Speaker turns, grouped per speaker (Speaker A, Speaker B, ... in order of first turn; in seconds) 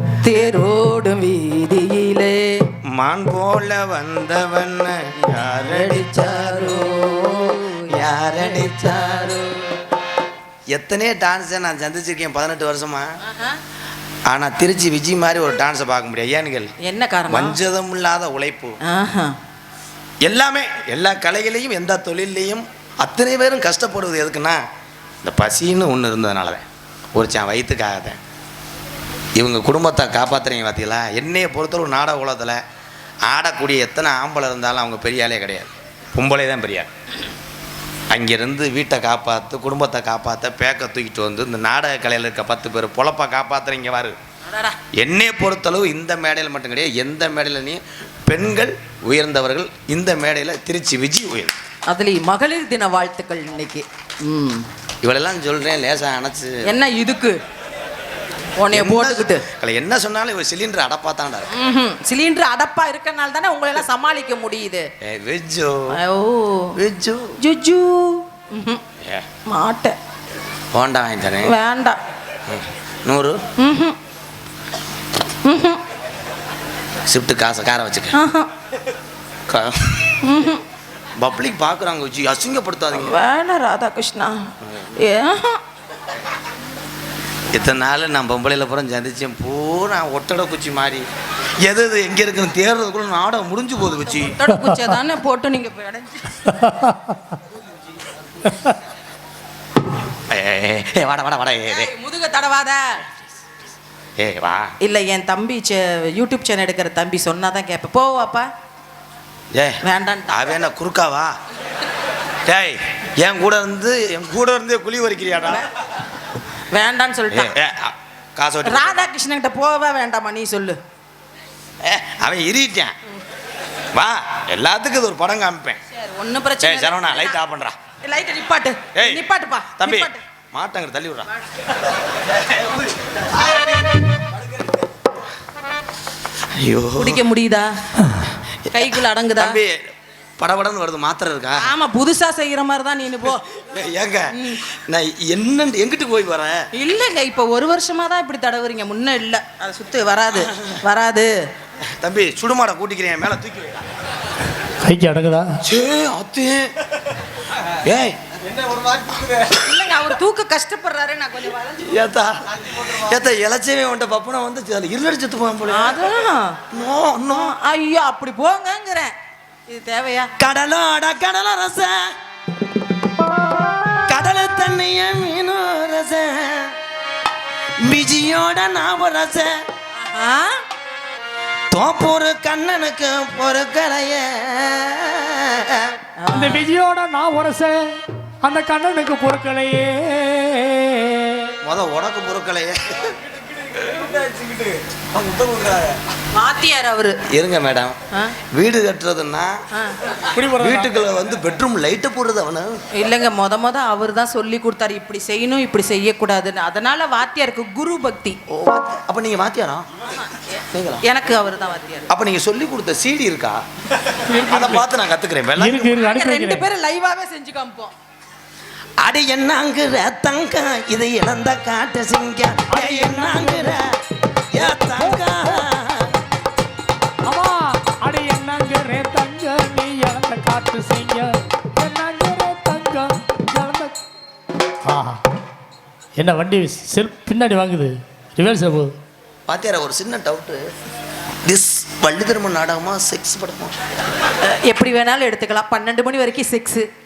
Speaker A: 0.2-2.6, 5.2-9.6, 13.2-13.6, 16.8-17.6, 18.8-19.4, 44.5-44.8, 51.9-54.7, 56.6-57.4, 58.6-59.5, 61.5-64.9, 65.9-66.8, 67.4-68.8, 69.5-70.0, 71.4-72.0, 73.6-74.0, 75.4-75.8, 78.1-78.5, 80.2-80.6, 82.9-85.6, 93.9-96.5, 101.7-103.0, 104.8-108.5, 109.8-110.5, 116.7-117.5, 118.7-120.8, 125.9-127.4, 128.0-130.2, 137.0-137.7, 138.7-139.6, 141.6-143.5, 144.3-144.6, 146.7-151.4, 159.6-162.0, 165.7-166.6, 167.3-169.1, 169.7-170.3, 180.0-180.6, 186.2-186.7, 196.3-197.2, 199.7-200.1, 202.9-208.4, 210.3-212.1, 216.0-217.9, 244.4-246.9
Speaker B: 2.9-6.9, 7.9-9.4, 10.7-13.2, 14.3-16.7, 17.3-18.8, 20.2-24.6, 25.2-28.2, 29.4-32.6, 33.3-36.9, 38.1-44.2, 44.9-51.5, 55.0-56.6, 58.7-61.5, 65.0-66.0, 66.8-67.4, 69.0-69.3, 70.7-71.5, 72.5-73.4, 77.1-78.2, 79.5-80.3, 81.2-83.2, 87.5-91.1, 91.6-94.4, 100.3-101.9, 104.2-104.7, 109.5-111.4, 112.5-115.7, 117.3-119.1, 121.8-123.0, 123.9-125.8, 126.6-127.8, 128.9-131.3, 136.5-137.2, 138.1-141.7, 143.7-146.7, 150.4-150.8, 151.9-153.8, 155.6-156.7, 157.8-158.2, 161.9-166.1, 166.7-167.6, 170.4-172.1, 174.1-176.8, 177.8-179.6, 181.7-186.0, 191.6-193.1, 197.3-198.0, 198.5-199.6, 200.6-202.8, 208.5-209.9, 210.5-211.1, 212.1-213.6, 214.4-216.0, 219.0-223.9, 224.5-226.1, 239.5-240.6, 241.4-243.8
Speaker C: 94.5-94.8, 96.5-97.0, 154.8-155.6, 186.3-191.5, 200.3-200.9, 214.3-214.8, 215.6-216.7, 222.7-223.8, 227.3-234.0, 234.9-235.2, 236.2-238.9
Speaker D: 132.4-134.9, 158.3-159.6, 162.5-163.2, 193.1-196.0